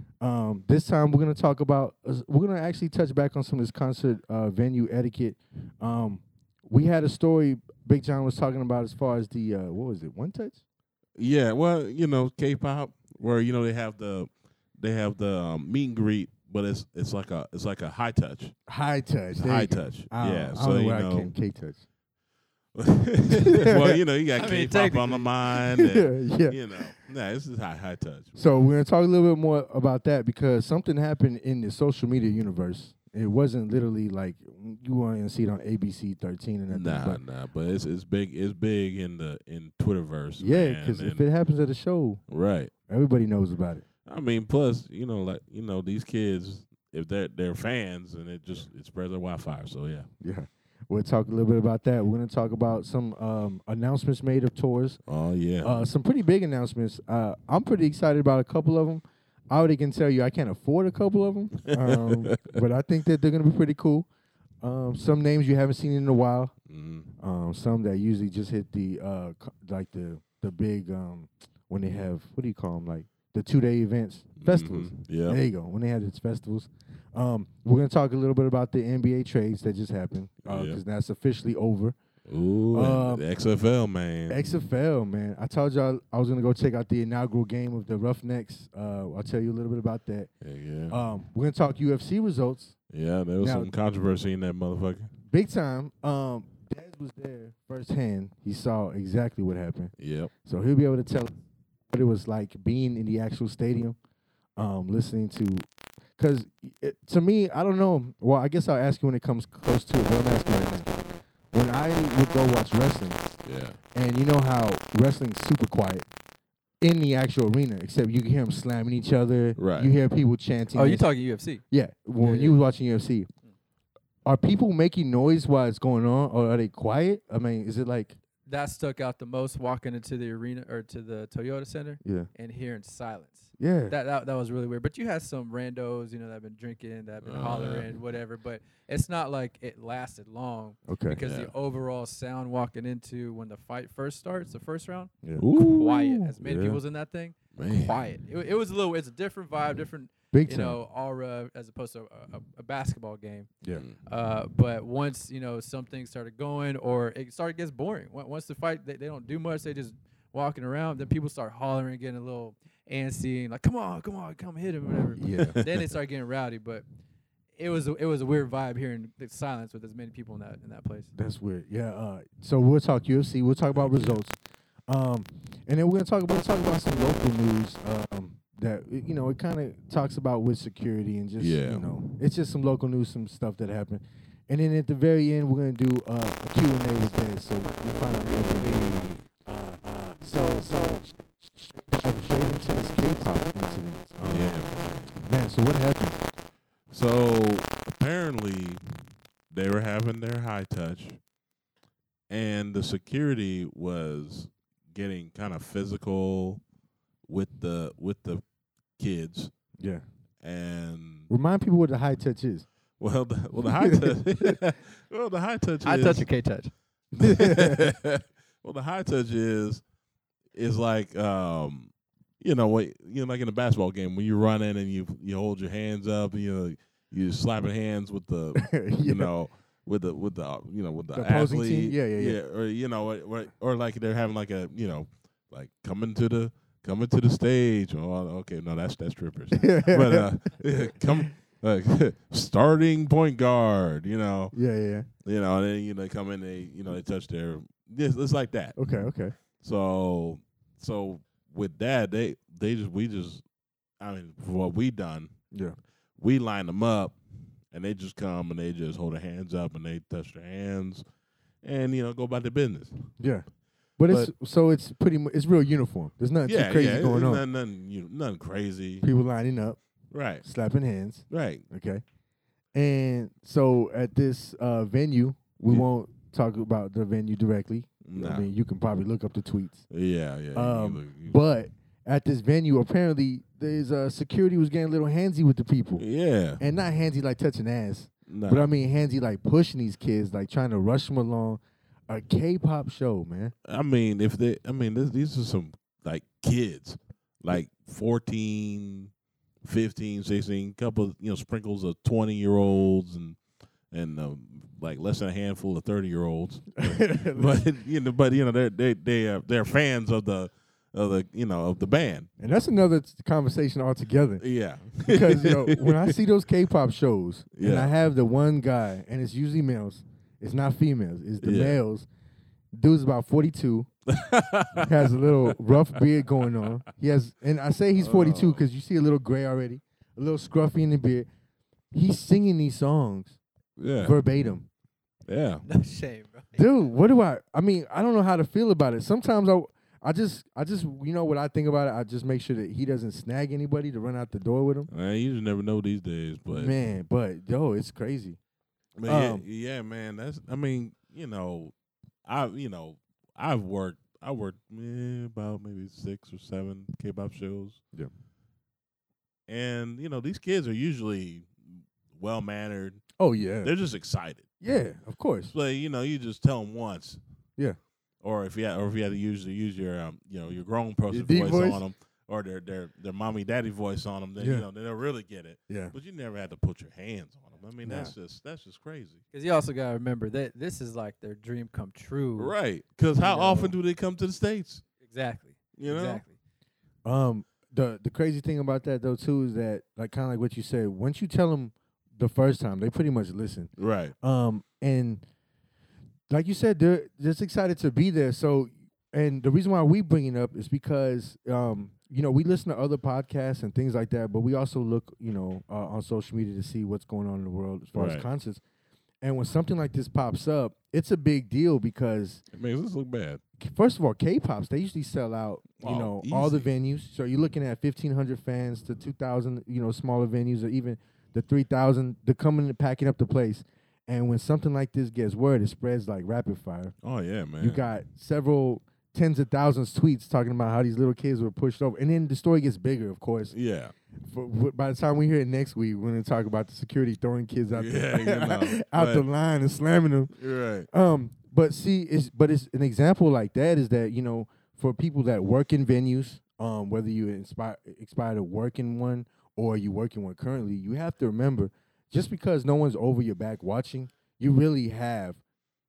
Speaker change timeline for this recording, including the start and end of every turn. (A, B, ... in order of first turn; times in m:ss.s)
0:00.2-0:10.6 A
0:11.2-0:18.5 B
0:18.7-0:21.8 A
0:19.3-0:21.3 B
0:22.7-0:28.4 B
0:23.3-0:24.0 A
0:24.4-0:25.3 C
0:25.7-0:26.6 A
0:28.4-0:37.2 A
0:36.7-0:41.2 B
0:40.4-0:42.2 A
0:42.3-0:42.7 B
0:42.9-0:43.8 A
0:44.0-0:50.1 B
0:50.2-0:55.0 A
0:55.1-0:55.9 B
0:55.6-1:04.1 A
1:01.7-1:02.5 B
1:04.6-1:06.5 A
1:06.7-1:07.1 B
1:07.2-1:22.0 A
1:14.4-1:15.4 B
1:20.4-1:20.8 B
1:22.3-1:24.6 B
1:22.7-1:23.2 A
1:24.3-1:30.3 A
1:30.4-1:31.0 B
1:30.9-1:32.7 A
1:32.9-1:35.1 B
1:33.4-1:33.7 A
1:35.3-1:39.9 A
1:40.0-1:40.3 B
1:40.4-1:41.3 A
1:41.9-1:44.0 A
1:44.6-1:50.9 A
1:51.5-1:53.2 A
1:53.4-1:53.8 B
1:53.9-1:56.0 A
1:56.8-2:01.0 A
1:59.6-1:59.9 B
2:00.7-2:01.6 C
2:01.7-2:03.3 A
2:02.2-2:02.6 C
2:04.2-2:08.2 A
2:08.4-2:33.5 C
2:12.0-2:12.3 A
2:13.6-2:13.9 A
2:17.2-2:17.9 B
2:20.9-2:21.2 A
2:21.2-2:21.5 B
2:25.2-2:25.5 A
2:25.4-2:26.2 B
2:26.4-2:26.8 A
2:27.5-2:28.0 B
2:30.3-2:30.8 A
2:34.0-2:46.8 C
2:45.1-2:45.6 A
2:45.4-2:45.7 B
2:47.6-2:51.1 C
2:51.1-2:54.4 A
2:53.7-2:54.2 B
2:54.9-3:14.6 A
3:01.4-3:02.1 B
3:08.7-3:09.2 B
3:14.2-3:15.2 B
3:15.2-3:16.2 A
3:16.9-3:21.2 B
3:22.3-3:26.6 B
3:27.3-3:28.4 B
3:29.0-3:29.5 B
3:30.4-3:31.3 B
3:31.3-3:32.6 A
3:33.0-3:36.2 B
3:33.6-3:34.6 A
3:35.8-3:36.7 C
3:37.1-3:37.9 A
3:37.2-3:39.8 B
3:40.5-4:04.5 B
3:48.6-3:49.3 A
3:51.1-3:52.4 A
3:59.5-4:00.3 A
4:04.5-4:05.1 A
4:05.2-4:08.8 B
4:08.8-4:09.3 A
4:09.6-4:13.4 B
4:14.0-4:15.3 B
4:15.5-4:15.8 A
4:16.2-4:17.2 B
4:17.7-4:21.0 B
4:21.6-4:22.9 B
4:23.2-4:23.4 A
4:24.0-4:27.4 A
4:26.4-4:29.1 B
4:29.0-4:29.8 A
4:30.1-4:30.4 B
4:30.4-4:32.0 A
4:31.3-4:31.6 B
4:32.7-4:39.9 A
4:38.0-4:38.5 B
4:39.9-4:41.4 B
4:40.5-4:46.0 A
4:46.0-4:46.6 B
4:46.6-4:53.5 A
4:48.3-4:48.7 B
4:53.6-4:59.1 B
4:59.6-5:03.4 B
5:03.9-5:12.3 B
5:06.8-5:07.6 A
5:12.4-5:14.4 A
5:14.4-5:16.2 B
5:15.0-5:22.1 A
5:17.6-5:17.9 B
5:21.4-5:21.8 B
5:22.7-5:23.9 A
5:24.1-5:25.5 B
5:24.8-5:31.3 A
5:28.0-5:28.6 B
5:31.9-5:33.4 A
5:33.8-5:34.2 B
5:34.0-5:34.7 A
5:35.3-5:35.6 B
5:35.6-5:36.7 C
5:36.5-5:44.9 A
5:44.9-5:46.7 B
5:46.5-5:48.4 A
5:49.0-5:51.7 B
5:49.0-5:49.4 A
5:52.2-5:57.8 B
5:59.5-6:03.0 B
6:03.2-6:03.7 A
6:03.6-6:04.6 B
6:04.6-6:05.5 A
6:05.5-6:07.2 B
6:08.2-6:19.2 B
6:11.1-6:11.8 A
6:14.4-6:14.7 A
6:15.7-6:15.9 A
6:17.8-6:18.1 A
6:19.3-6:22.5 C
6:22.4-6:24.8 B
6:23.2-6:23.7 C
6:25.0-6:26.3 C
6:25.8-6:26.2 B
6:27.0-6:35.2 A
6:33.8-6:34.1 B
6:36.3-6:48.6 A
6:47.9-6:48.3 B
6:49.2-6:52.4 A
6:52.5-6:53.4 B
6:53.6-7:06.9 A
6:55.8-6:56.7 B
7:07.0-7:07.8 B
7:07.6-7:13.5 A
7:13.5-7:13.9 B
7:14.2-7:20.3 A
7:17.7-7:19.3 B
7:20.4-7:20.9 B
7:20.9-7:35.4 A